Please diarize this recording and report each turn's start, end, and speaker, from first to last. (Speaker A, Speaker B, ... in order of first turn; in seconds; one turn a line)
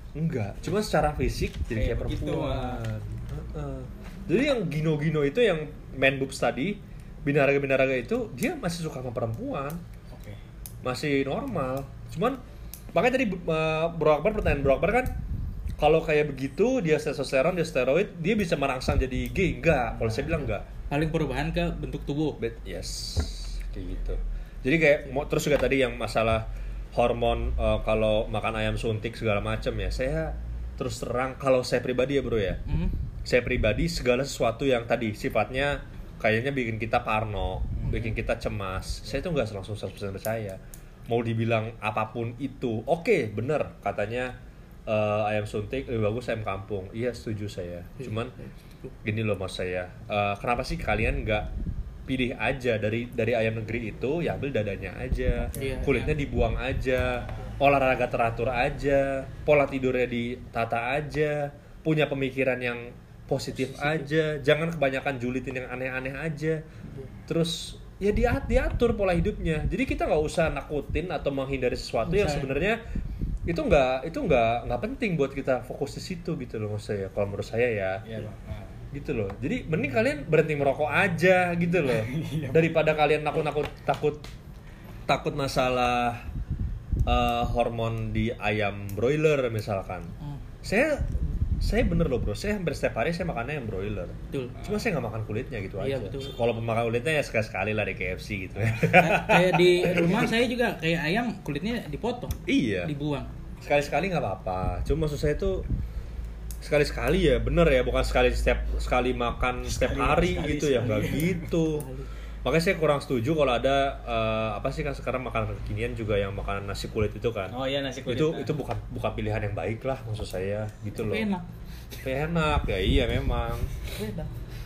Speaker A: 0.1-9.8
Speaker B: 1.7-2.9
Speaker B: 10.1-10.4
Speaker A: 10.8-12.4
Speaker A: 12.9-15.1
Speaker A: 15.8-20.6
Speaker B: 19.9-20.4
Speaker C: 20.9-22.4
Speaker A: 22.4-32.6
Speaker C: 32.7-32.9
Speaker A: 33.2-44.4
Speaker B: 37.8-38.1
Speaker A: 44.9-48.3
Speaker C: 48.0-49.0
Speaker A: 49.0-51.5
Speaker A: 52.1-66.6
Speaker B: 55.4-56.1
Speaker C: 55.6-56.0
Speaker B: 57.0-57.6
Speaker C: 63.6-64.1
Speaker A: 67.3-72.8
Speaker C: 72.1-72.4
Speaker A: 73.5-78.0
Speaker B: 78.0-78.8
Speaker A: 78.9-84.2
Speaker B: 81.8-82.8
Speaker A: 85.1-86.2
Speaker A: 87.1-100.3
Speaker C: 94.3-94.6
Speaker B: 94.6-94.8
Speaker C: 95.8-96.3
Speaker B: 98.6-100.3
Speaker C: 98.9-103.3
Speaker A: 102.5-102.9
Speaker A: 103.6-105.7
Speaker A: 106.6-111.9
Speaker B: 109.7-111.5
Speaker C: 111.7-112.1
Speaker A: 112.4-117.5
Speaker B: 117.5-118.5
Speaker A: 118.1-121.3
Speaker C: 121.0-121.5
Speaker A: 122.0-123.7
Speaker C: 123.8-124.3